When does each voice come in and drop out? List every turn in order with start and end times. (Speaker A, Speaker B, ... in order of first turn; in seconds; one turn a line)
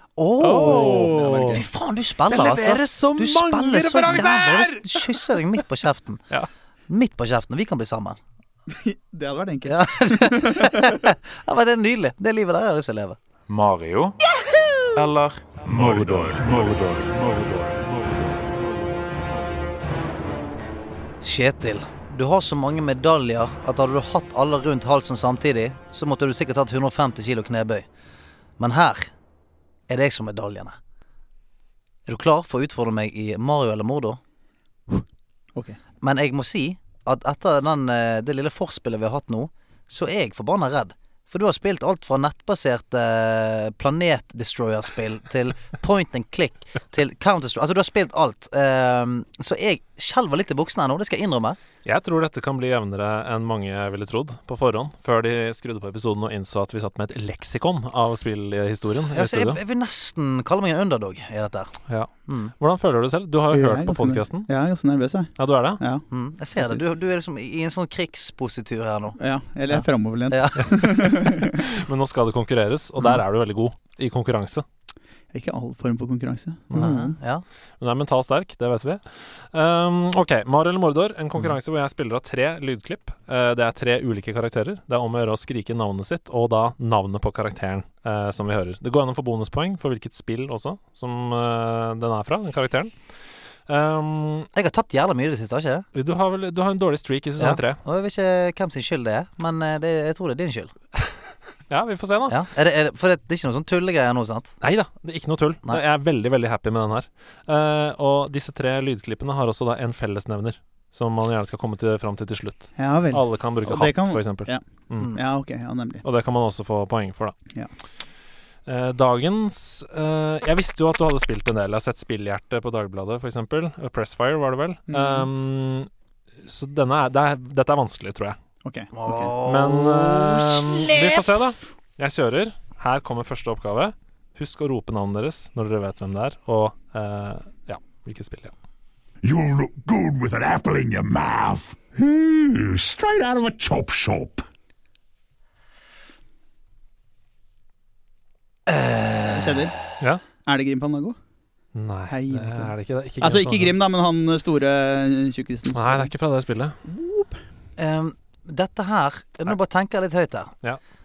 Speaker A: 0.2-6.3
Speaker B: 0.4-1.6
Speaker C: 0.6-1.6
Speaker B: 2.3-5.4
Speaker A: 6.9-8.2
Speaker C: 8.7-11.0
Speaker A: 9.7-13.2
Speaker D: 13.5-14.2
Speaker D: 14.9-18.5
Speaker E: 15.7-16.7
Speaker A: 21.2-27.9
Speaker A: 28.6-29.1
Speaker A: 29.9-30.8
Speaker A: 32.0-34.2
Speaker A: 36.0-51.6
Speaker B: 51.8-59.6
Speaker A: 59.1-62.5
Speaker B: 61.9-64.5
Speaker C: 63.5-66.0
Speaker B: 65.4-65.8
Speaker A: 66.1-69.2
Speaker C: 69.2-71.6
Speaker A: 69.7-71.1
Speaker B: 71.5-74.6
Speaker C: 75.3-77.2
Speaker A: 76.7-77.4
Speaker B: 77.8-92.9
Speaker B: 93.7-94.5
Speaker A: 94.5-95.9
Speaker B: 95.9-97.8
Speaker A: 97.4-100.7
Speaker B: 101.7-102.4
Speaker A: 102.3-104.5
Speaker B: 104.6-115.1
Speaker C: 112.8-114.6
Speaker C: 115.1-116.0
Speaker B: 116.0-117.3
Speaker B: 118.7-125.9
Speaker C: 124.9-125.3
Speaker B: 126.4-128.4
Speaker C: 128.6-129.3
Speaker A: 128.9-131.3
Speaker B: 129.4-138.5
Speaker E: 139.2-144.4
Speaker A: 148.7-149.7
Speaker C: 149.3-149.8
Speaker C: 150.4-151.2
Speaker B: 151.7-153.7
Speaker C: 152.1-156.1
Speaker B: 155.7-156.8
Speaker C: 156.8-157.4
Speaker A: 157.8-160.5